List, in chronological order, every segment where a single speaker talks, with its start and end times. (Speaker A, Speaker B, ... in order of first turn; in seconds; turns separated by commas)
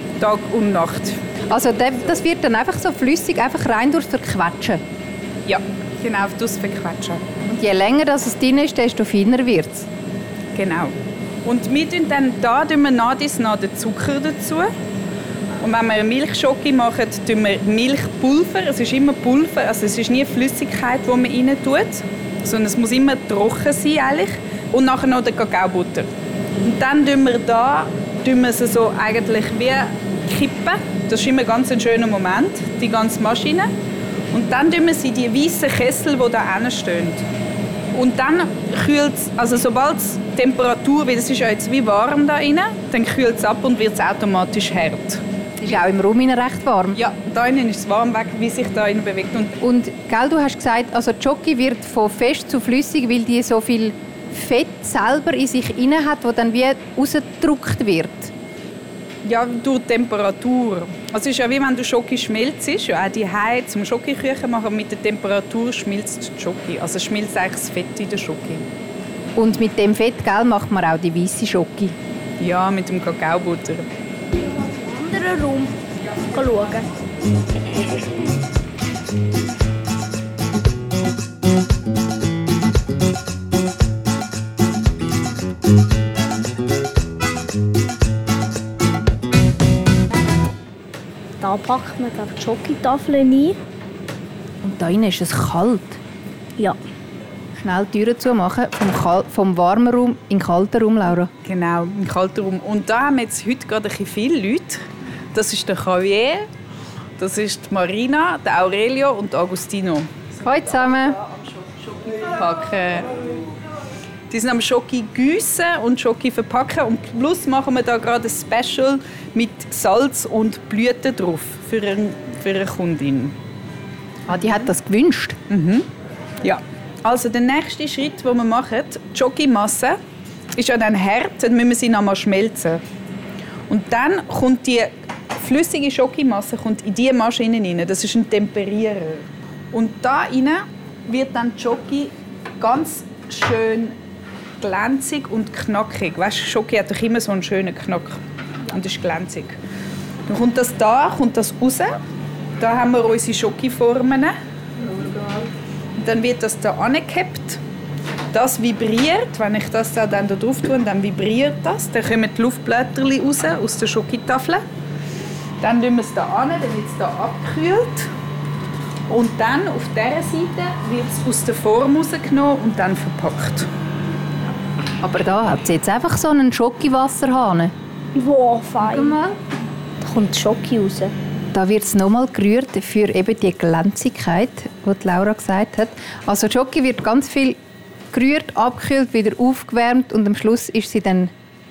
Speaker A: 0.2-1.2, Speaker B: 1.5-4.8, Speaker A: 5.5-7.2, Speaker B: 7.5-9.9, Speaker A: 10.6-10.9, Speaker A: 11.4-14.7, Speaker A: 15.6-26.1, Speaker A: 26.6-33.7, Speaker A: 34.3-37.2, Speaker A: 37.9-45.2, Speaker B: 45.6-47.0, Speaker A: 47.0-49.6, Speaker B: 49.6-58.3, Speaker A: 59.2-68.7, Speaker B: 69.4-72.0, Speaker A: 72.4-73.9, Speaker C: 74.6-75.8, Speaker C: 76.3-76.9, Speaker C: 91.4-93.6, Speaker B: 94.6-96.0, Speaker B: 97.6-101.3, Speaker A: 101.4-106.5, Speaker A: 107.2-110.4, Speaker B: 110.4-111.2, Speaker A: 111.1-113.5, Speaker A: 114.3-123.3, Speaker B: 124.3-125.4, Speaker A: 125.5-125.9, Speaker A: 126.4-130.0, Speaker A: 130.6-132.8, Speaker A: 133.7-144.0, Speaker A: 144.6-149.6, Speaker A: 150.3-152.0, Speaker A: 152.6-154.3, Speaker B: 154.9-155.5, Speaker A: 156.0-157.6, Speaker A: 158.3-164.6, Speaker A: 165.6-168.1, Speaker A: 169.1-173.7, Speaker B: 175.0-177.7, Speaker C: 178.2-179.2, Speaker B: 178.8-179.4, Speaker C: 180.0-181.1, Speaker B: 181.5-187.6, Speaker B: 188.1-191.3